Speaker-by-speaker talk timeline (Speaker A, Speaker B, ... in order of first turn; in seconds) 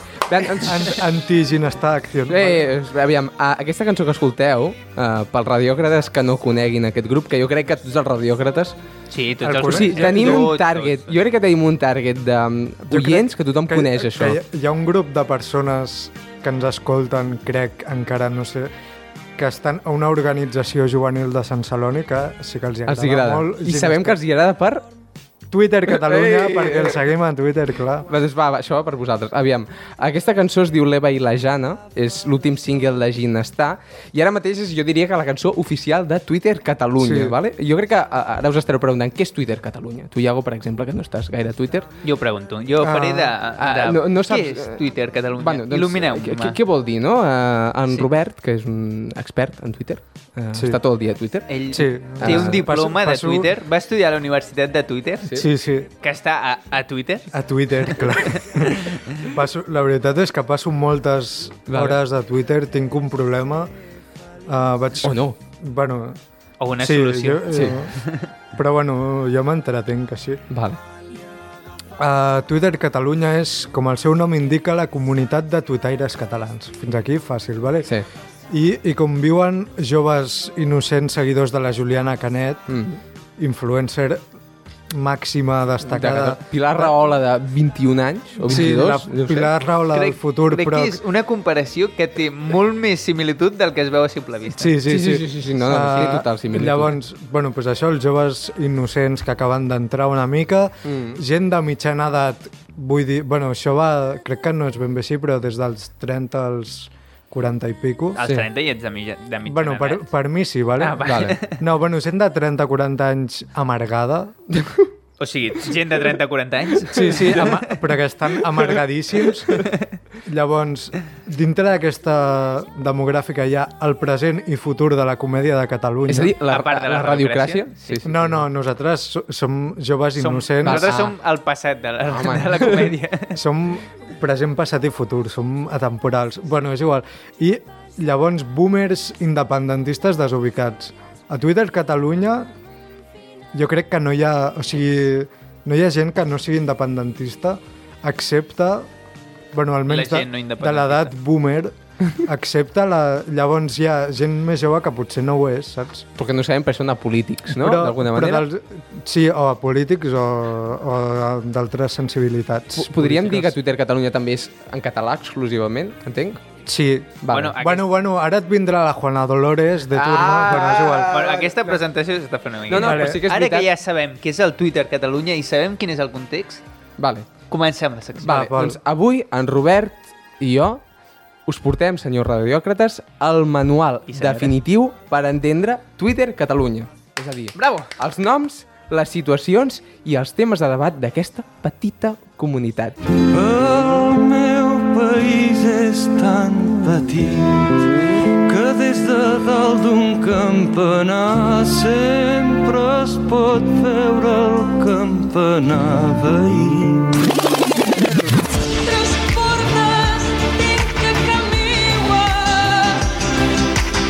Speaker A: 0.3-1.0, 2.3-8.8, 9.6-14.4, 22.9-24.8, 25.9-27.1, 28.1-41.9, 43.6-52.6, 61.7-62.0, 65.0-65.3, 67.5-67.8, 70.5-70.8, 82.7-83.0, 85.8-89.5, 94.8-96.9, 100.8-101.2, 108.2-108.5, 111.0-111.4, 114.5-114.9, 116.9-117.5, 119.2-119.7, 126.1-128.4, 130.6-131.1, 132.1-132.9, 156.2-158.5, 162.7-166.4, 167.2-167.6, 169.9-171.7, 172.7-173.7, 177.0-177.3, 178.2-180.8, 181.4-193.0
Speaker B: 0.6-2.7, 9.4-10.5, 12.9-18.7, 19.4-24.2, 25.5-28.1, 37.0-37.4, 42.8-43.3, 50.5-50.8, 51.7-53.5, 55.3-55.9, 57.3-63.7, 64.5-66.2, 66.8-67.9, 68.5-70.4, 72.0-77.9, 78.5-82.8, 83.4-84.2, 84.9-86.9, 88.4-91.0, 94.5-108.2, 109.5-114.4, 116.9-119.7, 120.2-126.3, 128.0-130.9, 133.3-142.5, 143.5-148.9, 149.5-156.1, 157.5-163.6, 166.7-171.3, 172.7-173.2, 178.3-178.8
Speaker C: 9.1-11.2, 42.0-46.6, 51.5-55.3, 56.0-57.3, 57.8-59.2, 66.6-68.3, 89.9-94.8, 108.2-110.0, 110.8-111.6, 115.2-117.6, 126.5-128.0, 130.2-133.4, 149.9-151.1, 167.3-167.9, 171.1-176.6, 177.5-178.4, 184.1-184.5, 187.5-187.9
Speaker D: 193.3-197.7, 198.5-207.0
Speaker E: 203.2-203.8, 208.1-213.1